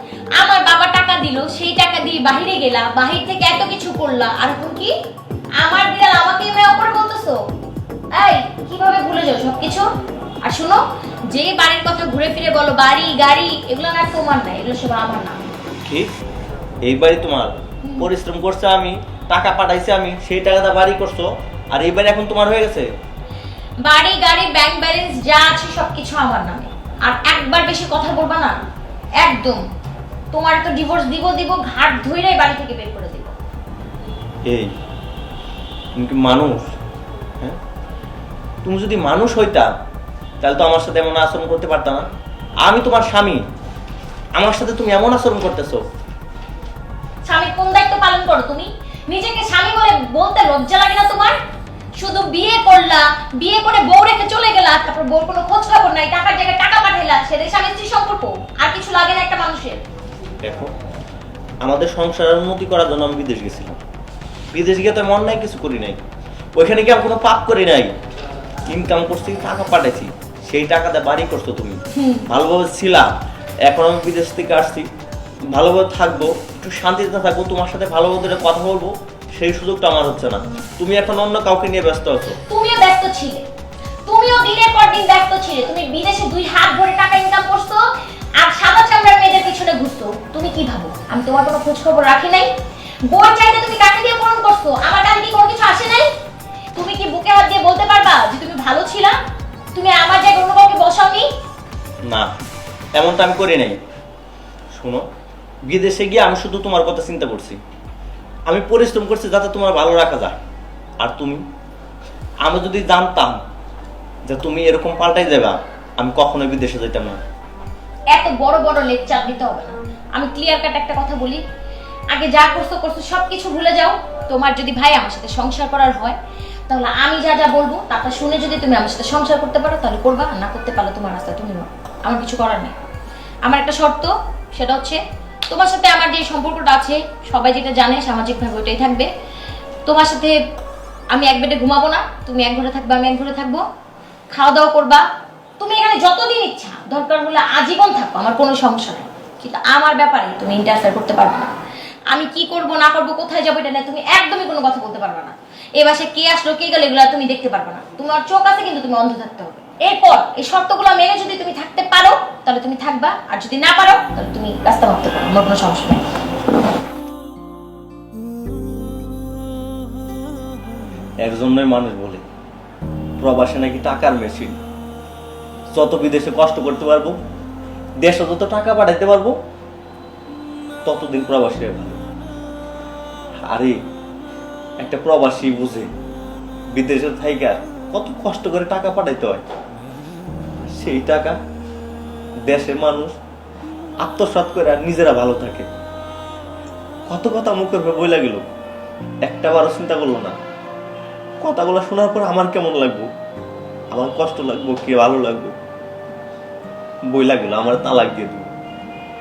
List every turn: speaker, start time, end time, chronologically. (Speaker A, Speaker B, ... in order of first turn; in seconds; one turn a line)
Speaker A: 0.4-4.9
Speaker A: 5.6-7.4
Speaker A: 8.1-9.9
Speaker A: 10.4-15.4
Speaker B: 15.8-16.1
Speaker B: 16.8-22.9
Speaker A: 17.8-18.1
Speaker A: 23.9-28.6
Speaker A: 29.2-29.6
Speaker A: 30.3-33.4
Speaker B: 34.4-34.7
Speaker B: 36.0-36.7
Speaker B: 38.6-39.7
Speaker B: 40.4-42.0
Speaker B: 42.6-43.4
Speaker B: 44.4-45.8
Speaker A: 47.2-51.4
Speaker A: 52.0-59.8
Speaker B: 60.4-60.7
Speaker B: 61.6-63.8
Speaker B: 64.5-66.0
Speaker B: 66.6-67.9
Speaker B: 68.7-73.1
Speaker A: 71.9-72.3
Speaker B: 73.7-74.9
Speaker B: 75.5-82.4
Speaker A: 82.5-83.4
Speaker A: 84.1-87.8
Speaker A: 88.4-92.5
Speaker A: 93.1-96.1
Speaker A: 96.7-99.2
Speaker A: 99.7-101.3
Speaker B: 103.0-103.8
Speaker B: 104.7-105.0
Speaker B: 105.7-107.6
Speaker B: 108.5-110.3
Speaker B: 111.0-111.4
Speaker B: 112.4-113.4
Speaker B: 114.3-117.2
Speaker A: 118.1-121.4
Speaker A: 122.1-126.2
Speaker A: 126.7-132.7
Speaker A: 133.4-135.0
Speaker A: 135.5-139.1
Speaker A: 139.8-140.3
Speaker A: 141.1-143.6
Speaker A: 144.3-145.0
Speaker A: 145.6-151.5
Speaker A: 152.1-166.0
Speaker B: 171.2-172.2
Speaker B: 173.2-174.6
Speaker B: 175.7-177.2
Speaker B: 178.0-179.3
Speaker B: 180.8-182.0
Speaker B: 183.5-183.8
Speaker B: 184.8-185.9
Speaker B: 186.7-189.4
Speaker B: 190.6-191.4
Speaker B: 192.5-193.1
Speaker B: 194.0-195.7
Speaker B: 197.1-198.5
Speaker B: 199.2-200.3
Speaker B: 201.4-203.1
Speaker B: 203.9-205.5
Speaker B: 207.1-208.5